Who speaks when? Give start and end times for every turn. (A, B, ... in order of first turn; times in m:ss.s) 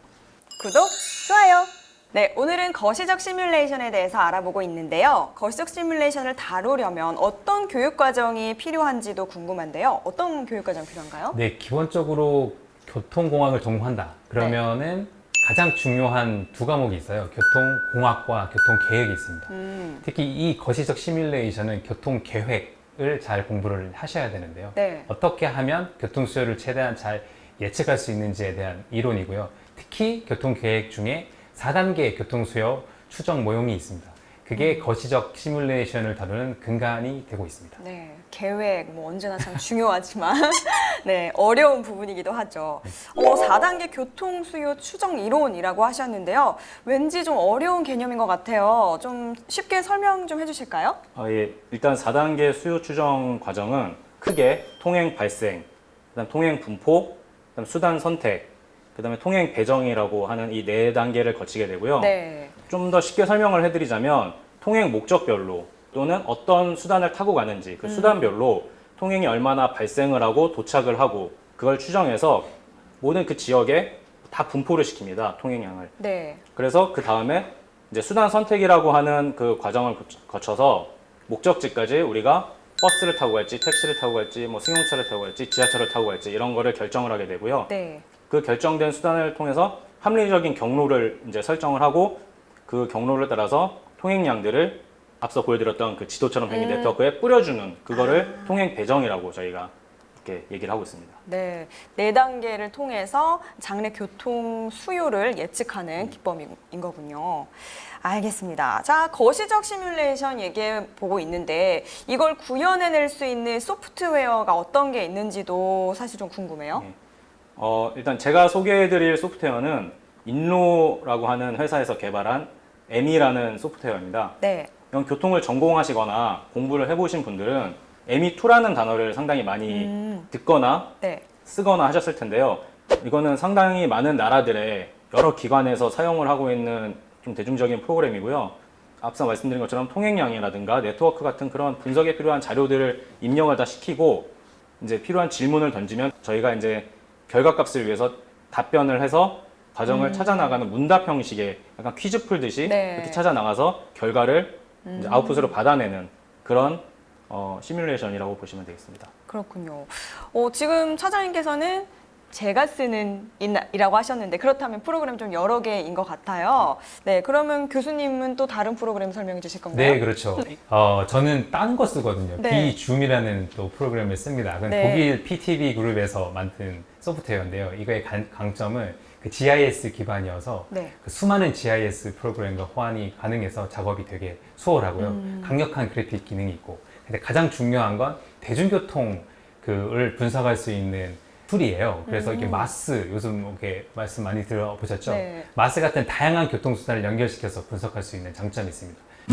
0:00.6-0:11.4 A
0:11.3-0:19.5 B
0:19.5-0:20.0 A
0:20.0-0:37.8 B
0:24.7-0:25.1 A
0:34.5-0:34.8 A
0:37.8-0:51.0 A
0:51.1-1:02.1 C
1:02.0-1:02.5 A
1:02.7-1:15.9 C
1:07.8-1:08.3 A
1:16.0-1:16.4 A
1:16.5-1:27.7 C
1:27.7-1:28.0 A
1:28.3-1:41.2 C
1:36.5-1:37.0 A
1:37.9-1:38.7 A
1:41.2-1:56.8 A
1:57.6-2:04.4 C
2:04.4-2:04.7 A
2:04.9-2:39.1 C
2:09.7-2:10.3 A
2:11.0-2:11.2 A
2:29.8-2:30.6 A
2:32.6-2:33.2 A
2:34.8-2:35.5 A
2:39.3-2:50.5 A
2:49.7-3:19.0 B
2:52.4-2:52.8 A
2:54.7-2:55.1 A
3:00.7-3:00.9 A
3:05.0-3:05.6 A
3:12.0-3:12.7 A
3:15.0-3:15.5 A